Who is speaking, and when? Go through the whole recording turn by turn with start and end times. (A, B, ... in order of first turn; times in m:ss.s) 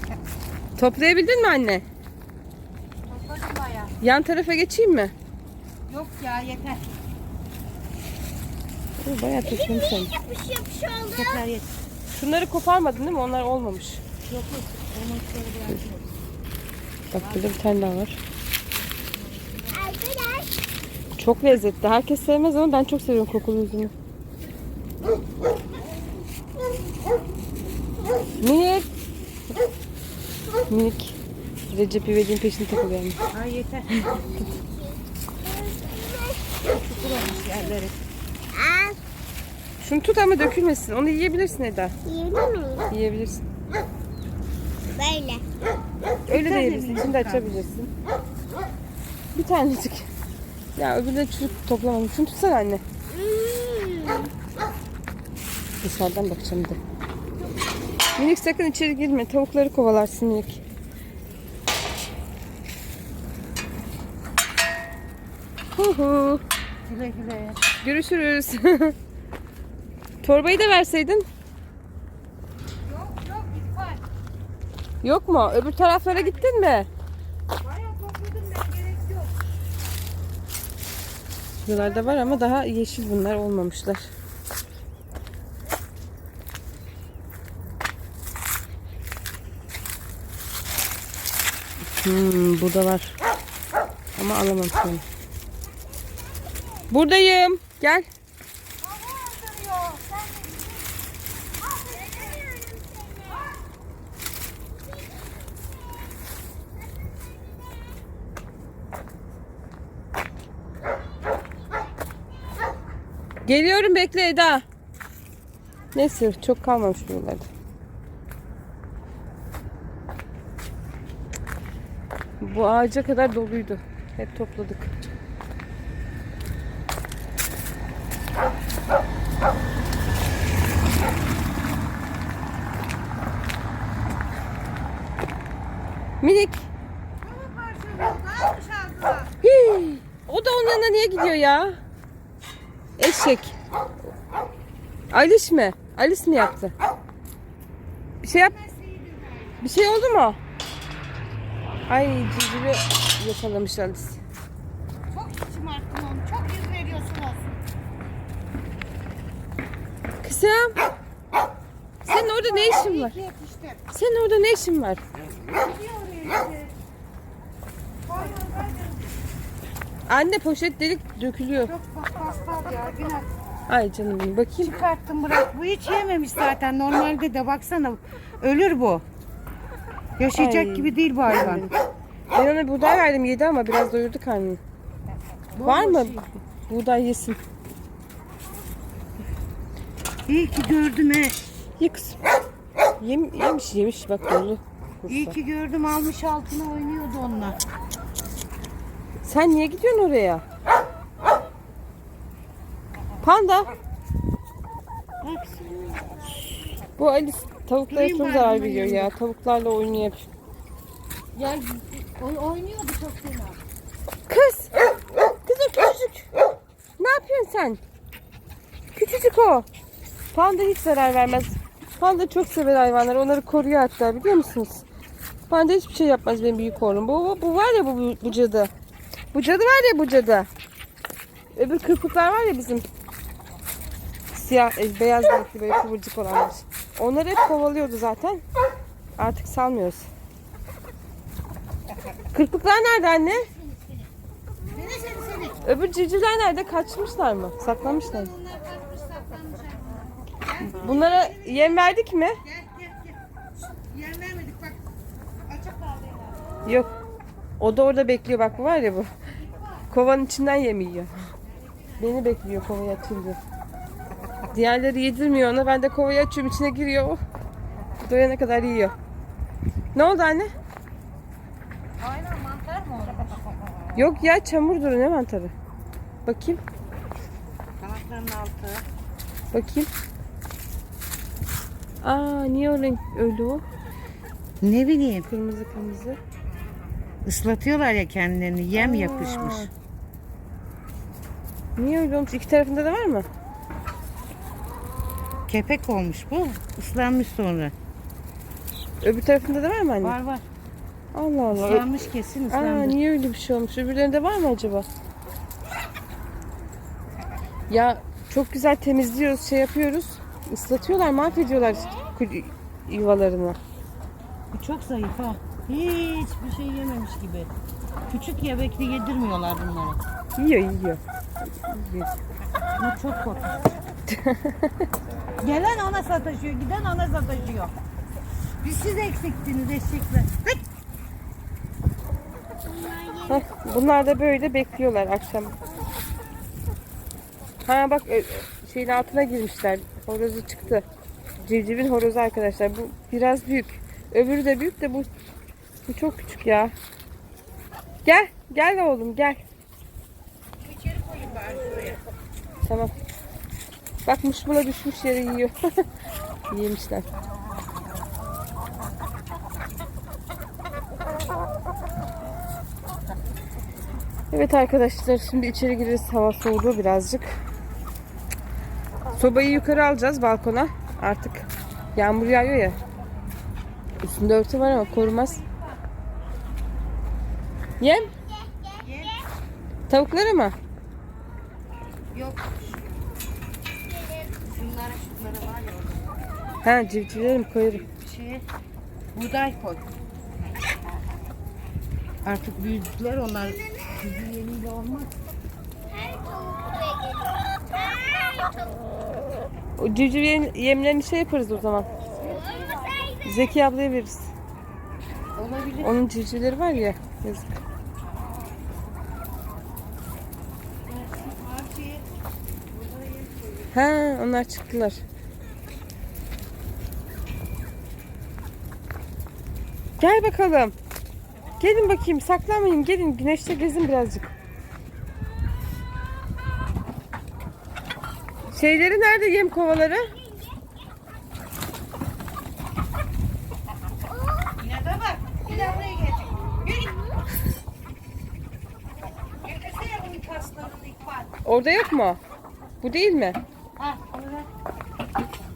0:00.8-0:01.8 A
0:03.1-0:03.9 B
0:04.0-0:05.1 A
0:05.9-0:06.8 B
0:09.0-0:10.1 A
0:09.4-0:11.4 C
0:11.1-0:11.7 B
0:12.2-0:14.0 A
0:14.3-0:16.2 B
0:17.1-0:18.2 A
0:17.2-0:17.5 B
0:19.4-0:19.9 B
0:19.7-0:20.6 C
0:21.2-0:23.9 A
0:28.4-0:28.9 A
0:30.7-0:31.2 A
0:31.7-0:33.2 A
0:33.3-0:34.1 B
0:33.9-0:34.4 A
0:34.1-0:37.7 C
0:36.7-0:38.0 B
0:38.5-0:39.0 C
0:39.8-0:41.9 A
0:42.0-0:42.9 C
0:42.9-0:43.4 A
0:44.9-0:45.4 C
0:46.3-0:47.5 B
0:46.3-0:47.9 A
0:49.4-0:50.1 A
0:50.8-0:52.8 A
0:53.1-0:54.3 C
0:55.8-0:56.8 A
0:58.2-1:00.6 A
1:05.8-1:06.4 A
1:06.9-1:07.6 B
1:07.8-1:09.0 A
1:10.2-1:11.3 A
1:12.8-1:14.0 B
1:15.0-1:16.9 A
1:15.6-1:16.5 B
1:17.6-1:19.3 B
1:21.7-1:24.1 A
1:21.7-1:22.5 B
1:32.0-1:33.2 A
1:34.2-1:35.0 A
1:36.4-1:36.9 C
1:36.9-1:38.1 A
1:38.8-1:40.8 B
1:41.6-1:43.6 C
1:53.5-1:54.6 A
1:55.9-1:57.5 A
2:02.4-2:04.9 A
2:16.2-2:16.7 A
2:17.2-2:19.3 B
2:19.4-2:21.8 A
2:23.0-2:23.6 A
2:25.1-2:26.7 A
2:28.2-2:28.5 A
2:28.3-2:29.8 B
2:29.6-2:30.4 A
2:31.9-2:34.2 A
2:35.1-2:37.6 B
2:40.2-2:40.8 A
2:42.1-2:43.2 A
2:42.1-2:43.8 B
2:43.9-2:45.0 A
2:45.5-2:46.8 B
2:48.0-2:49.1 B
2:50.1-2:51.7 A
2:51.6-2:53.3 B
2:53.7-2:54.8 A
2:54.6-2:59.0 B
3:00.2-3:01.7 B
3:00.4-3:01.7 A
3:02.3-3:04.6 A
3:05.5-3:06.3 B
3:05.6-3:07.4 A
3:10.3-3:11.4 B
3:11.8-3:12.2 A
3:13.0-3:15.4 A
3:15.1-3:17.6 B
3:19.2-3:20.4 A
3:23.2-3:23.7 A
3:25.2-3:26.3 B
3:27.0-3:30.3 A
3:27.9-3:29.1 B
3:31.4-3:33.6 B
3:34.3-3:34.7 A
3:35.4-3:36.3 A
3:37.0-3:37.8 A
3:39.0-3:39.7 A
3:40.3-3:44.8 A
3:45.5-3:48.7 A
3:49.3-3:50.5 A
3:51.6-3:52.8 A
3:54.3-3:58.4 A
3:59.2-4:00.1 A
4:02.3-4:03.5 A
4:03.5-4:04.1 B
4:04.7-4:05.6 B
4:05.6-4:08.3 A
4:07.7-4:11.9 B
4:10.6-4:12.4 A
4:12.4-4:14.8 B
4:15.5-4:16.5 B
4:17.6-4:19.1 A
4:19.3-4:19.9 B
4:19.9-4:21.1 A
4:21.4-4:22.1 B
4:22.0-4:23.4 A
4:24.5-4:27.2 A
4:28.0-4:28.9 A
4:30.0-4:30.5 A
4:32.0-4:33.6 B
4:34.0-4:35.5 A
4:36.3-4:36.6 A
4:37.8-4:38.8 B
4:39.5-4:39.9 A
4:42.0-4:43.6 A
4:44.6-4:45.3 B
4:45.3-4:46.2 A
4:47.2-4:49.7 B
4:48.8-4:49.7 A
4:51.8-4:53.3 A
4:55.5-4:57.7 B
4:59.0-5:00.2 A
5:00.0-5:00.4 B
5:01.1-5:04.9 A
5:01.5-5:03.0 B
5:07.7-5:13.6 A
5:14.5-5:17.5 B
5:18.1-5:20.0 B
5:20.4-5:21.0 A
5:21.6-5:22.1 A
5:22.8-5:23.5 B
5:24.1-5:24.9 A
5:25.4-5:27.7 B
5:28.6-5:30.6 B
5:32.6-5:33.6 C
5:33.3-5:35.6 A
5:37.6-5:40.8 A
5:41.4-5:45.1 A
5:45.9-5:46.7 A
5:48.0-5:49.4 A
5:50.6-5:52.0 B
5:52.6-5:52.9 A
5:54.1-5:55.8 A
5:56.5-5:57.1 A
6:04.3-6:07.3 A
6:09.1-6:12.8 A
6:14.0-6:15.4 A
6:14.6-6:15.8 B
6:17.8-6:18.1 A
6:18.1-6:19.2 C
6:18.8-6:19.1 B
6:19.9-6:20.6 A
6:22.1-6:22.6 B
6:23.9-6:24.3 C
6:24.4-6:26.1 B
6:26.6-6:27.9 A
6:27.9-6:28.4 B
6:29.1-6:29.8 B
6:32.2-6:35.1 B
6:35.9-6:38.8 C
6:39.8-6:41.9 A
6:42.2-6:43.1 B
6:42.2-6:43.3 C
6:43.2-6:44.3 A
6:45.4-6:46.0 B
6:45.8-6:47.5 A
6:50.8-6:52.0 B
6:52.7-6:53.7 B
6:53.7-6:55.0 A
7:00.0-7:00.8 A
7:01.6-7:04.3 A
7:08.5-7:10.1 A
7:10.1-7:10.6 C
7:14.1-7:14.6 C
7:14.6-7:16.9 B
7:15.5-7:17.2 C
7:19.4-7:21.3 B
7:21.4-7:22.2 A
7:22.8-7:23.4 A
7:23.8-7:24.5 B